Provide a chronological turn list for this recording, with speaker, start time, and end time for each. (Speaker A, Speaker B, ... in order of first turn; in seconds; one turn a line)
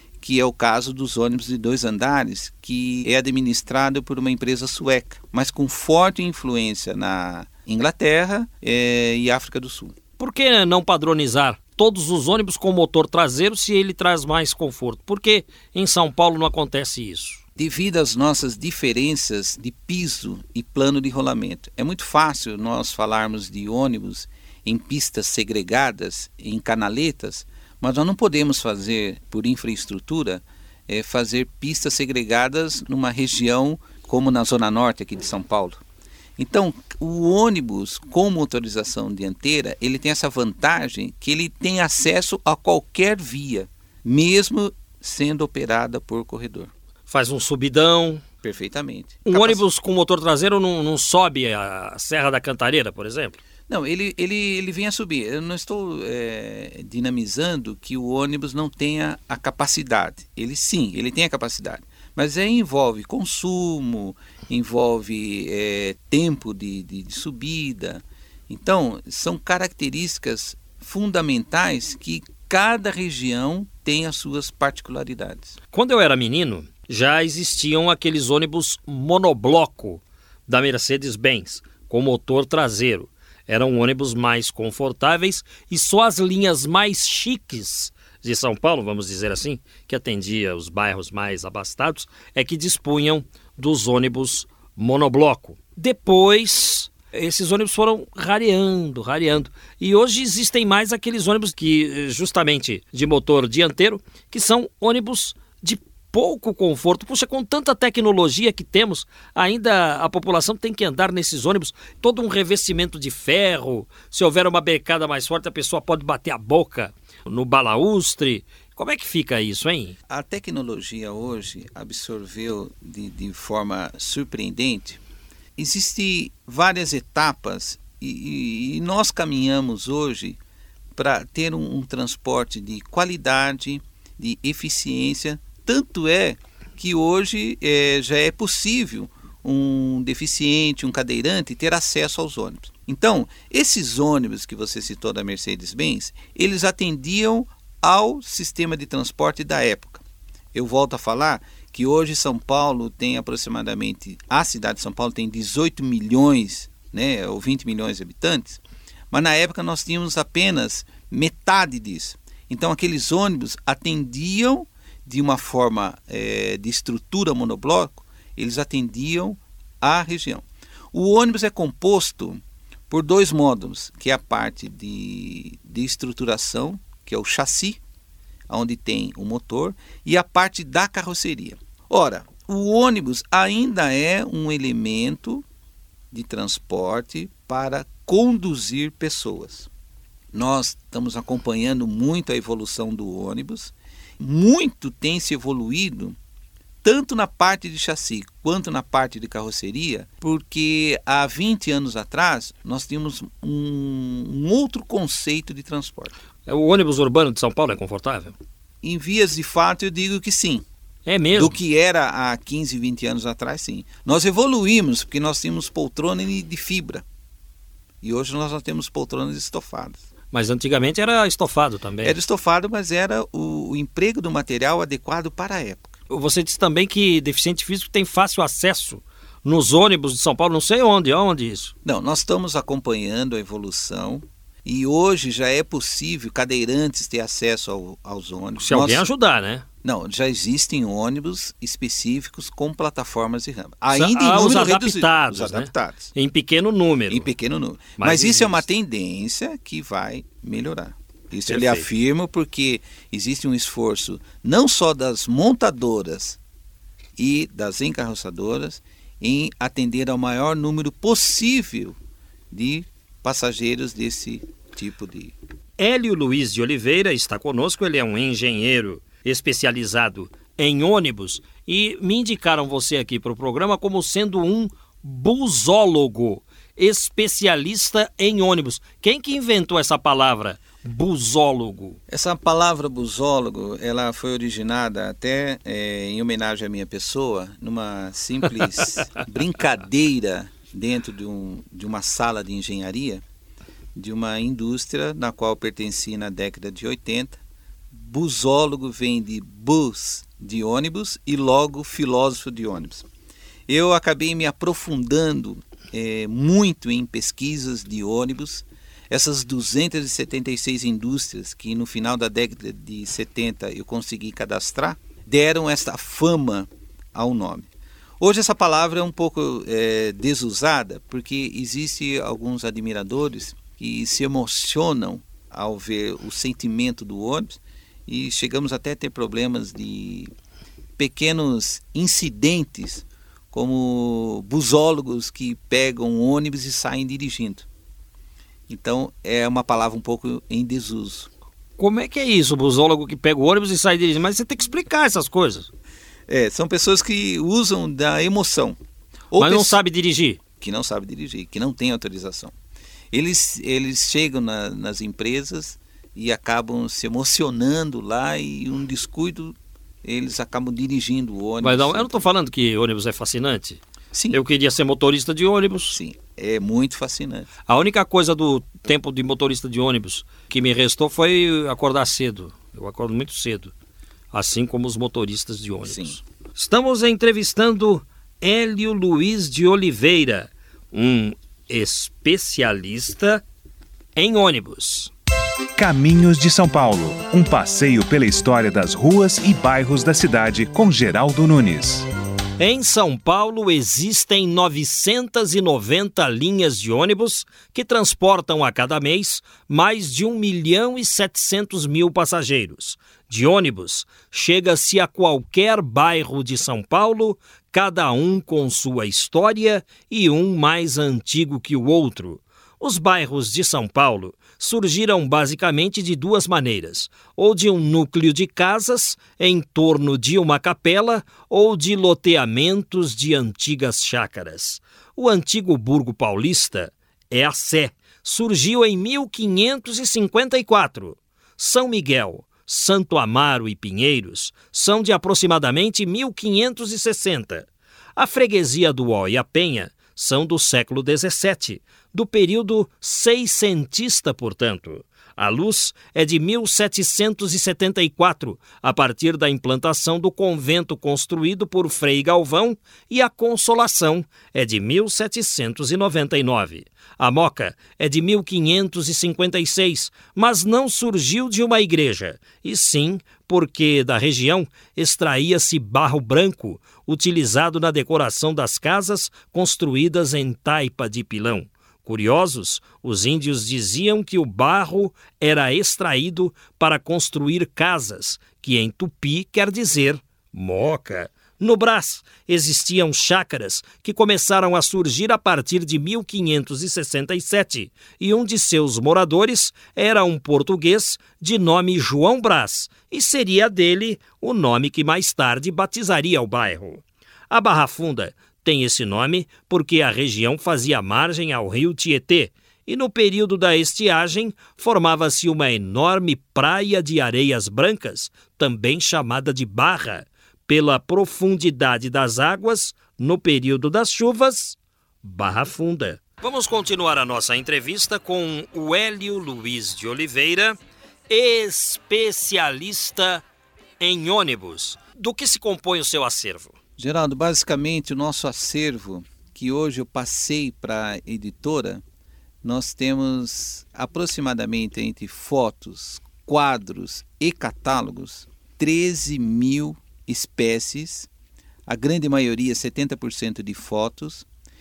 Speaker A: 0.2-9.9
Speaker B: 10.2-17.4
Speaker A: 17.6-35.8
Speaker A: 36.4-46.7
Speaker B: 47.1-48.2
Speaker A: 48.4-49.6
Speaker B: 49.2-53.4
Speaker A: 53.7-75.5
Speaker B: 75.7-120.0
Speaker A: 120.1-125.0
Speaker A: 125.5-130.4
Speaker A: 130.9-150.0
Speaker A: 150.5-177.8
Speaker A: 178.5-185.4
Speaker A: 186.1-189.7
Speaker A: 190.3-196.2
Speaker A: 196.8-206.1
Speaker B: 206.5-208.3
Speaker A: 208.8-210.7
Speaker B: 211.1-211.6
Speaker A: 211.3-217.0
Speaker A: 218.0-220.0
Speaker B: 220.3-222.2
Speaker A: 222.0-225.9
Speaker B: 226.1-231.7
Speaker A: 231.8-239.0
Speaker B: 238.6-239.6
Speaker A: 239.8-246.1
Speaker B: 243.9-247.3
Speaker A: 247.1-256.4
Speaker B: 248.0-248.6
Speaker B: 251.5-251.9
Speaker A: 257.2-262.0
Speaker A: 262.5-265.3
Speaker B: 265.8-282.0
Speaker A: 282.1-293.2
Speaker A: 293.9-297.4
Speaker A: 297.9-303.1
Speaker A: 303.7-317.7
Speaker A: 318.2-330.3
Speaker A: 331.0-337.7
Speaker A: 338.7-341.3
Speaker B: 341.8-345.7
Speaker A: 346.3-348.8
Speaker A: 349.3-349.8
Speaker B: 349.4-350.4
Speaker A: 350.6-352.5
Speaker A: 353.1-362.2
Speaker B: 361.6-363.8
Speaker A: 364.1-364.4
Speaker B: 364.3-366.0
Speaker A: 365.9-367.5
Speaker B: 367.7-373.7
Speaker B: 374.3-383.4
Speaker A: 375.9-376.2
Speaker B: 384.1-385.1
Speaker C: 385.8-392.1
Speaker B: 392.6-520.8
Speaker B: 521.3-523.4
Speaker B: 524.0-526.7
Speaker A: 527.0-532.0
Speaker A: 532.6-541.3
Speaker A: 541.9-544.5